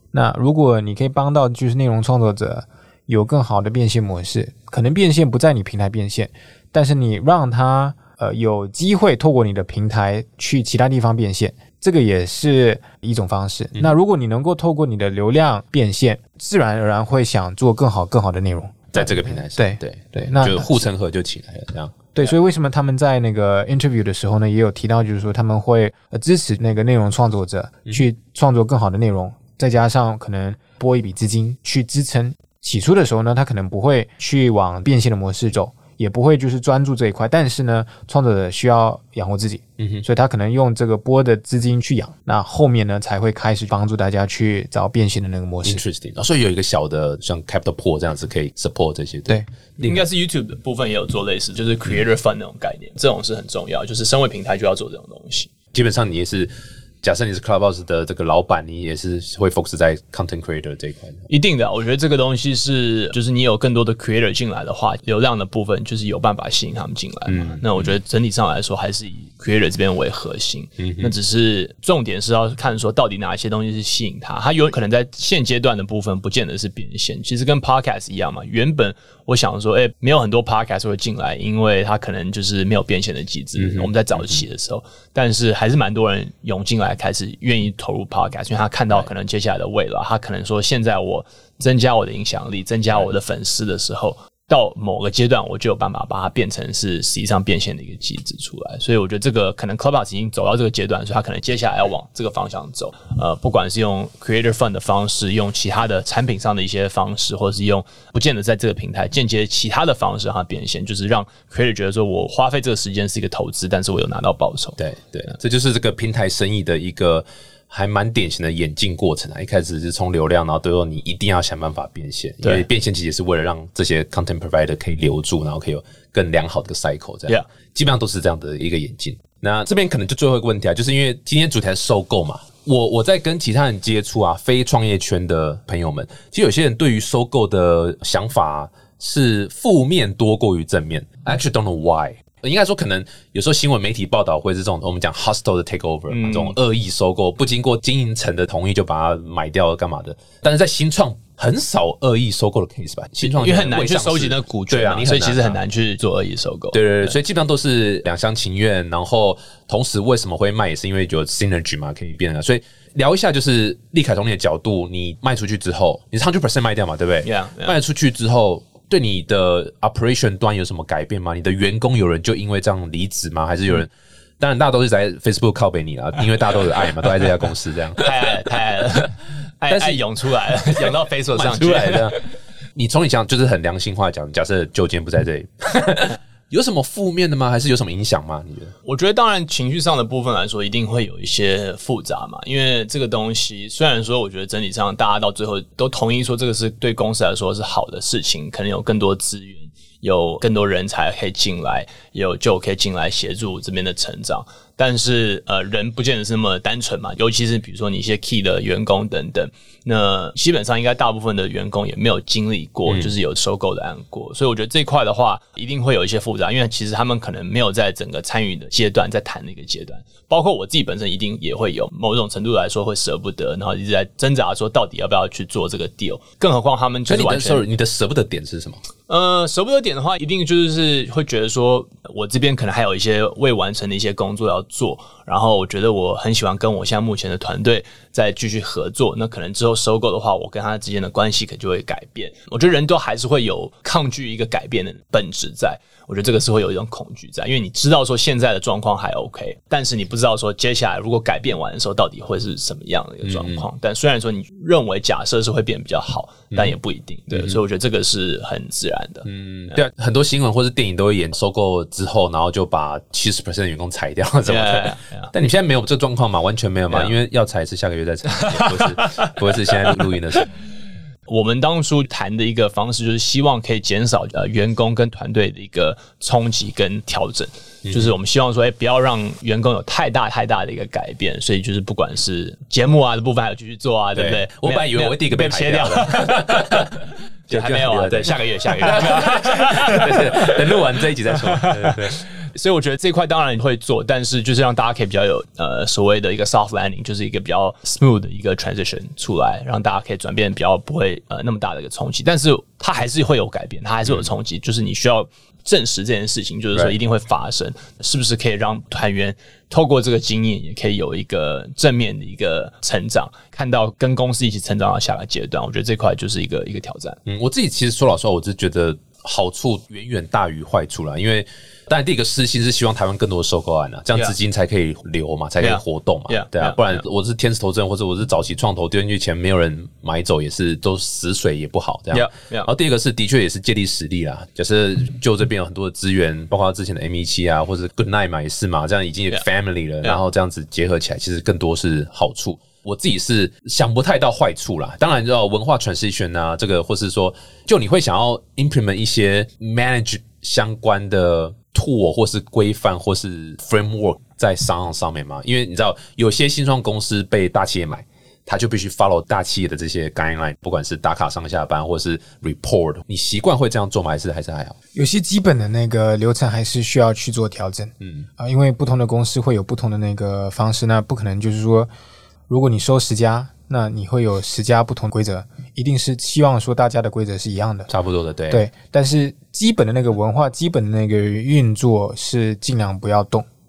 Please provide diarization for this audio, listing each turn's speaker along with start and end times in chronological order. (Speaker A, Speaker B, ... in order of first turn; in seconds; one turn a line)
Speaker A: 0.1-20.7
Speaker B: 18.9-22.0
Speaker A: 22.1-45.8
Speaker B: 39.8-40.0
Speaker B: 45.6-50.0
Speaker C: 49.8-55.5
Speaker B: 55.7-56.5
Speaker B: 57.0-61.3
Speaker C: 61.3-114.8
Speaker B: 67.3-68.0
Speaker B: 70.8-71.1
Speaker B: 83.6-84.4
Speaker B: 114.8-155.6
Speaker C: 146.1-146.6
Speaker C: 153.2-157.2
Speaker B: 156.7-178.1
Speaker C: 167.2-167.8
Speaker C: 178.0-182.3
Speaker B: 179.7-182.2
Speaker B: 182.8-188.7
Speaker C: 188.8-227.7
Speaker B: 212.9-213.1
Speaker B: 227.1-228.8
Speaker C: 229.1-259.8
Speaker B: 253.2-253.7
Speaker B: 257.3-257.6
Speaker B: 259.3-270.5
Speaker C: 264.5-265.3
Speaker C: 266.9-267.2
Speaker C: 268.4-270.5
Speaker C: 271.3-286.9
Speaker B: 277.9-278.1
Speaker B: 284.1-292.2
Speaker C: 287.5-317.2
Speaker B: 317.3-364.8
Speaker C: 325.6-327.0
Speaker C: 332.1-332.7
Speaker A: 364.9-371.9
Speaker B: 368.0-368.3
Speaker A: 372.5-377.9
Speaker B: 377.9-378.7
Speaker A: 378.5-383.5